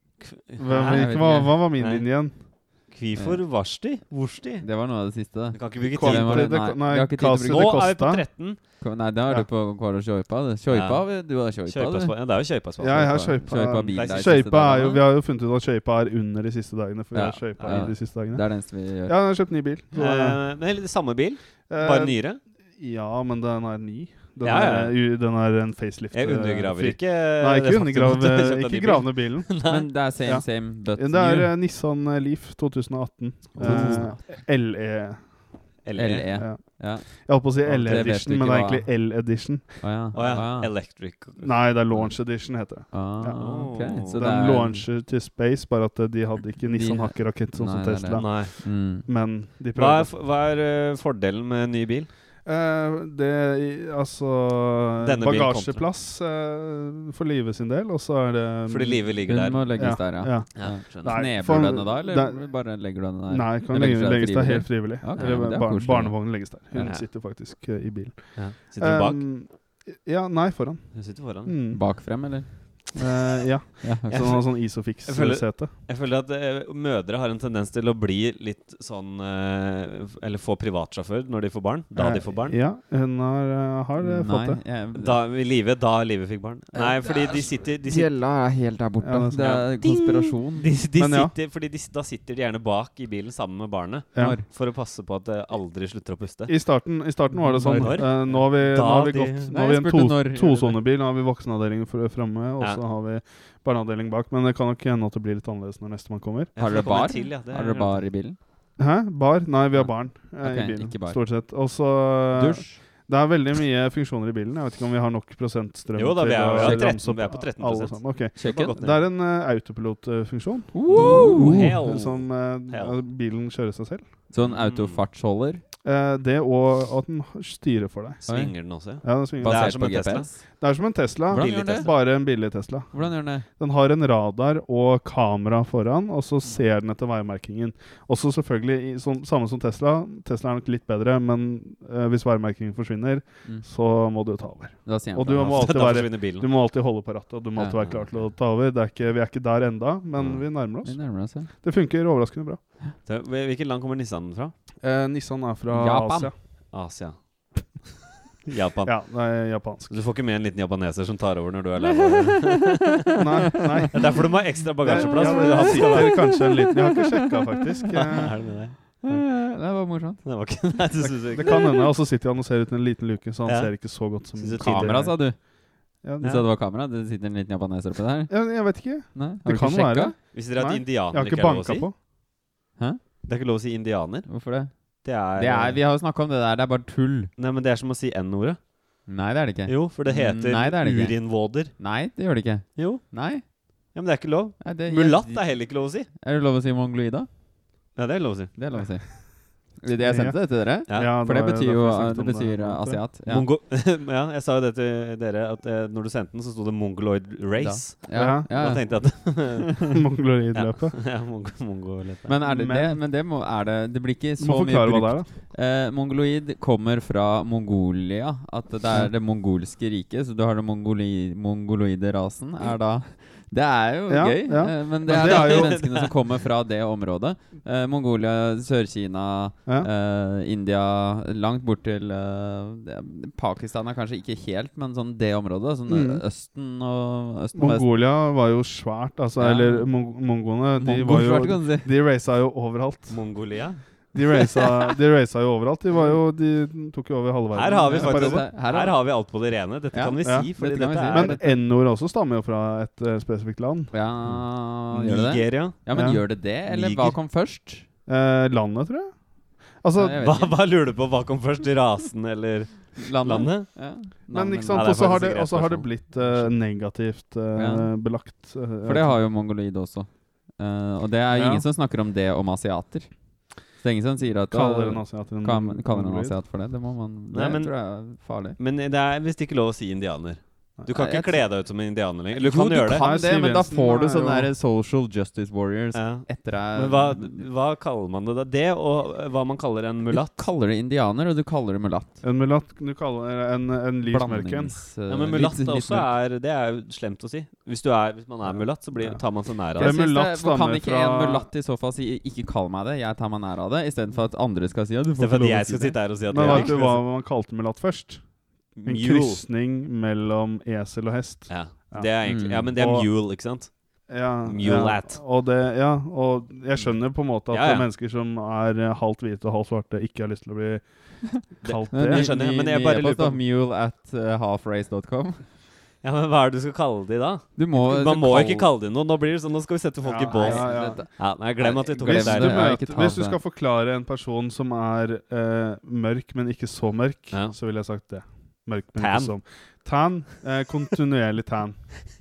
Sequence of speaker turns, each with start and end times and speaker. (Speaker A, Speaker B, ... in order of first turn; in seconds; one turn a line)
Speaker A: 0.2-6.8
Speaker B: 0.6-2.4
Speaker C: 0.8-1.7
Speaker C: 3.1-3.4
Speaker C: 4.6-8.0
Speaker B: 5.9-9.5
Speaker A: 7.5-8.8
Speaker C: 8.8-12.1
Speaker A: 10.7-15.0
Speaker B: 12.8-20.4
Speaker C: 13.4-15.0
Speaker C: 17.1-19.1
Speaker A: 19.9-22.4
Speaker B: 21.7-35.8
Speaker A: 24.4-25.0
Speaker A: 26.1-29.9
Speaker C: 29.6-31.5
Speaker C: 33.5-34.2
Speaker A: 33.6-34.1
Speaker A: 35.8-36.4
Speaker C: 35.9-40.7
Speaker B: 36.3-40.1
Speaker A: 37.7-38.1
Speaker A: 40.1-42.0
Speaker B: 41.4-50.1
Speaker C: 41.9-44.9
Speaker A: 43.4-44.1
Speaker C: 46.7-49.0
Speaker A: 48.1-48.5
Speaker A: 49.7-52.1
Speaker B: 52.4-75.7
Speaker A: 55.0-55.9
Speaker A: 58.7-61.7
Speaker C: 59.3-66.9
Speaker A: 65.2-65.5
Speaker A: 66.7-67.0
Speaker A: 68.3-69.3
Speaker A: 70.9-71.6
Speaker C: 71.7-72.9
Speaker C: 73.8-74.4
Speaker A: 74.1-82.6
Speaker B: 81.9-84.6
Speaker C: 84.0-85.2
Speaker A: 84.9-88.1
Speaker C: 86.7-90.7
Speaker B: 89.0-89.6
Speaker A: 89.4-96.6
Speaker B: 90.9-91.3
Speaker B: 94.1-94.4
Speaker C: 94.2-94.5
Speaker B: 96.5-106.5
Speaker C: 97.3-98.3
Speaker A: 97.7-99.5
Speaker C: 99.5-100.8
Speaker A: 106.5-108.1
Speaker C: 106.6-108.4
Speaker B: 108.8-124.0
Speaker C: 109.7-111.2
Speaker C: 112.3-113.1
Speaker A: 115.9-119.0
Speaker C: 116.6-116.9
Speaker C: 118.4-119.0
Speaker C: 120.7-121.7
Speaker A: 120.9-123.0
Speaker C: 124.3-125.6
Speaker A: 124.4-125.0
Speaker B: 125.8-129.9
Speaker A: 128.2-130.3
Speaker C: 128.2-130.6
Speaker B: 130.6-152.6
Speaker C: 131.3-133.4
Speaker A: 131.3-132.0
Speaker C: 144.8-145.8
Speaker A: 145.3-146.5
Speaker C: 147.5-147.8
Speaker A: 147.8-148.3
Speaker A: 150.2-150.4
Speaker C: 150.8-151.5
Speaker A: 153.0-154.5
Speaker B: 154.8-156.4
Speaker C: 155.7-156.3
Speaker A: 156.7-157.9
Speaker A: 158.5-162.9
Speaker B: 158.8-160.0
Speaker C: 162.1-162.5
Speaker B: 163.2-169.1
Speaker A: 163.9-166.6
Speaker C: 164.9-167.0
Speaker A: 168.2-168.8
Speaker C: 169.0-170.2
Speaker A: 170.2-171.7
Speaker B: 171.0-175.3
Speaker A: 173.4-175.2
Speaker C: 174.6-180.1
Speaker B: 176.0-176.3
Speaker A: 176.2-176.5
Speaker B: 178.3-181.9
Speaker A: 180.3-181.9
Speaker A: 183.2-185.8
Speaker C: 184.3-187.3
Speaker A: 187.4-188.7
Speaker C: 189.1-193.4
Speaker A: 189.7-191.8
Speaker A: 192.8-196.1
Speaker C: 194.6-197.3
Speaker A: 197.9-198.6
Speaker C: 198.6-203.5
Speaker B: 198.8-199.4
Speaker B: 200.0-203.0
Speaker A: 203.2-209.9
Speaker C: 207.6-209.1
Speaker B: 208.1-208.8
Speaker B: 209.9-211.0
Speaker A: 210.5-212.4
Speaker C: 212.3-237.9
Speaker B: 212.4-213.0
Speaker B: 214.4-215.3
Speaker B: 224.1-225.9
Speaker A: 225.1-226.1
Speaker B: 235.9-236.2
Speaker B: 237.5-243.6
Speaker C: 239.4-241.9
Speaker A: 243.1-244.4
Speaker B: 244.1-248.5
Speaker A: 247.5-251.4
Speaker C: 247.8-249.3
Speaker C: 249.9-251.4
Speaker B: 250.2-253.9
Speaker C: 253.9-257.9
Speaker A: 254.2-257.2
Speaker B: 255.9-256.4
Speaker B: 258.1-260.2
Speaker C: 260.0-260.6
Speaker A: 260.1-263.8
Speaker C: 263.0-265.0
Speaker B: 264.3-269.2
Speaker A: 264.7-266.3
Speaker C: 266.1-266.5
Speaker C: 267.5-268.0
Speaker C: 268.8-278.6
Speaker B: 271.3-271.6
Speaker B: 274.5-276.4
Speaker A: 277.3-283.1
Speaker C: 280.9-281.6
Speaker C: 282.3-287.5
Speaker B: 282.9-284.5
Speaker A: 285.9-290.4
Speaker C: 290.3-292.2
Speaker B: 292.2-294.8
Speaker C: 294.1-296.1
Speaker A: 295.1-300.0
Speaker B: 298.5-301.5
Speaker C: 299.8-306.7
Speaker A: 305.2-307.0
Speaker B: 306.3-313.1
Speaker A: 308.7-309.4
Speaker A: 311.5-315.2
Speaker C: 312.2-312.7
Speaker B: 314.1-322.3
Speaker A: 316.8-317.9
Speaker C: 321.5-325.5
Speaker A: 321.6-323.4
Speaker A: 326.0-332.7
Speaker C: 327.6-328.7
Speaker B: 330.0-331.2
Speaker C: 330.3-333.4
Speaker B: 331.9-342.1
Speaker A: 337.3-337.6
Speaker A: 338.9-339.4